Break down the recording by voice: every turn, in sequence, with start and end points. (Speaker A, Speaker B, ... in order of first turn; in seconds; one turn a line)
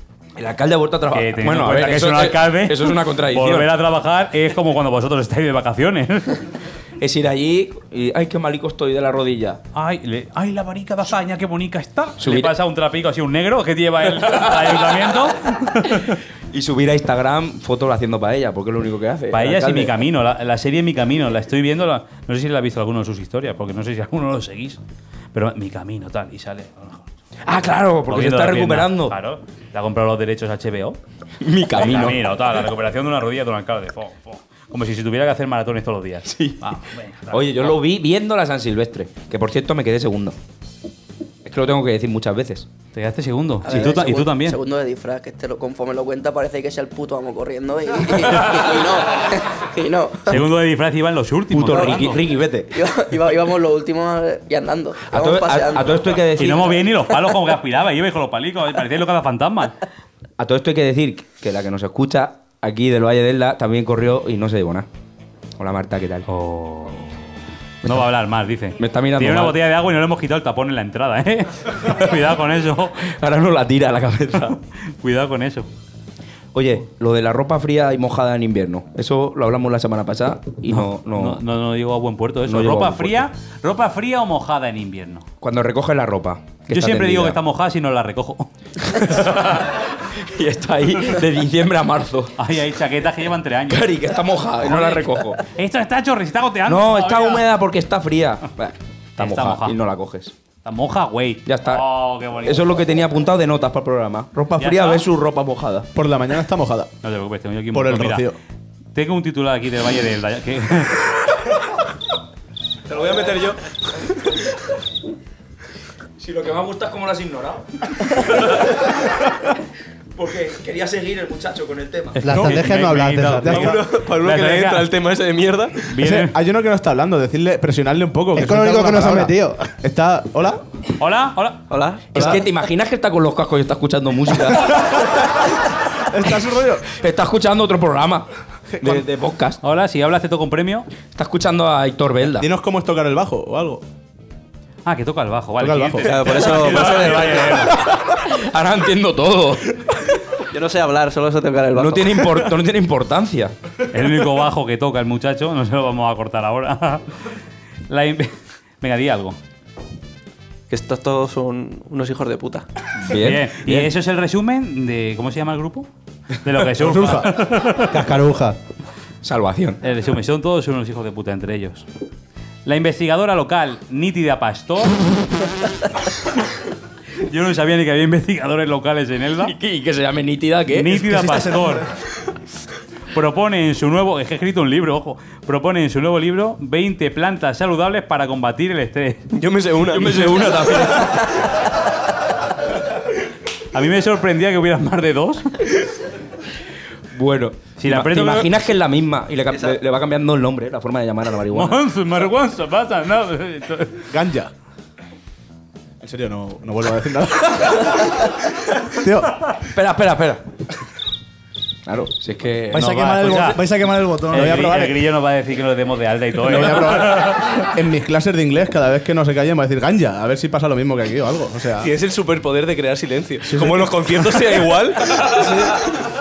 Speaker A: 0.3-3.7
Speaker B: 1.1-6.4
Speaker A: 7.0-9.6
Speaker B: 9.7-16.2
Speaker A: 12.2-12.6
Speaker A: 16.5-20.1
Speaker B: 19.3-24.8
Speaker B: 25.3-27.1
Speaker A: 27.4-29.1
Speaker B: 28.1-31.0
Speaker A: 31.4-32.2
Speaker B: 31.7-37.8
Speaker A: 36.2-36.6
Speaker A: 37.3-40.4
Speaker A: 41.4-42.7
Speaker B: 42.9-44.6
Speaker C: 43.6-50.4
Speaker B: 50.3-52.2
Speaker A: 51.5-52.7
Speaker C: 51.7-52.1
Speaker C: 52.7-56.2
Speaker A: 55.1-56.8
Speaker B: 56.4-59.8
Speaker A: 60.4-64.9
Speaker A: 65.6-66.2
Speaker B: 66.3-67.1
Speaker B: 67.8-73.0
Speaker A: 68.8-69.6
Speaker A: 73.0-74.5
Speaker B: 74.9-75.7
Speaker A: 76.5-81.4
Speaker B: 80.7-85.2
Speaker A: 82.5-83.2
Speaker A: 85.4-87.4
Speaker B: 86.7-88.5
Speaker A: 89.0-92.3
Speaker B: 92.4-93.9
Speaker A: 93.7-95.4
Speaker B: 94.6-97.4
Speaker A: 96.7-100.3
Speaker B: 99.2-99.8
Speaker B: 100.6-102.6
Speaker A: 101.5-105.9
Speaker B: 104.6-105.0
Speaker D: 105.9-106.9
Speaker B: 107.0-108.2
Speaker D: 107.7-108.3
Speaker B: 108.9-111.0
Speaker E: 112.9-113.5
Speaker A: 116.2-118.9
Speaker A: 120.2-122.2
Speaker B: 122.2-124.9
Speaker F: 122.2-123.8
Speaker E: 123.5-125.8
Speaker B: 125.9-126.3
Speaker D: 126.0-130.6
Speaker F: 128.3-129.7
Speaker B: 131.0-131.6
Speaker E: 131.7-132.2
Speaker A: 132.1-135.0
Speaker D: 136.1-136.9
Speaker A: 136.9-138.3
Speaker A: 138.8-139.6
Speaker B: 139.6-140.9
Speaker A: 141.1-142.5
Speaker D: 142.4-143.8
Speaker B: 144.8-147.8
Speaker D: 145.6-146.3
Speaker E: 146.0-147.9
Speaker A: 147.8-149.7
Speaker E: 150.5-152.4
Speaker A: 151.7-153.5
Speaker B: 153.9-157.1
Speaker B: 157.9-159.4
Speaker E: 160.7-162.7
Speaker A: 163.0-163.9
Speaker B: 163.1-165.9
Speaker B: 166.4-168.0
Speaker D: 166.8-167.3
Speaker F: 167.9-168.6
Speaker A: 169.2-169.8
Speaker B: 169.8-171.8
Speaker B: 172.6-175.0
Speaker B: 177.2-179.5
Speaker A: 179.4-181.5
Speaker B: 180.7-181.8
Speaker B: 183.1-189.3
Speaker E: 189.3-190.9
Speaker A: 189.8-191.3
Speaker B: 193.7-195.6
Speaker A: 197.1-201.8
Speaker B: 197.8-198.5
Speaker B: 201.5-204.1
Speaker D: 204.1-204.5
Speaker D: 206.0-208.3
Speaker D: 208.8-209.5
Speaker A: 209.6-210.4
Speaker A: 211.8-213.5
Speaker G: 212.7-214.7
Speaker B: 212.7-213.6
Speaker B: 214.3-217.6
Speaker D: 214.3-215.0
Speaker D: 216.4-221.9
Speaker E: 221.8-225.8
Speaker D: 223.5-224.0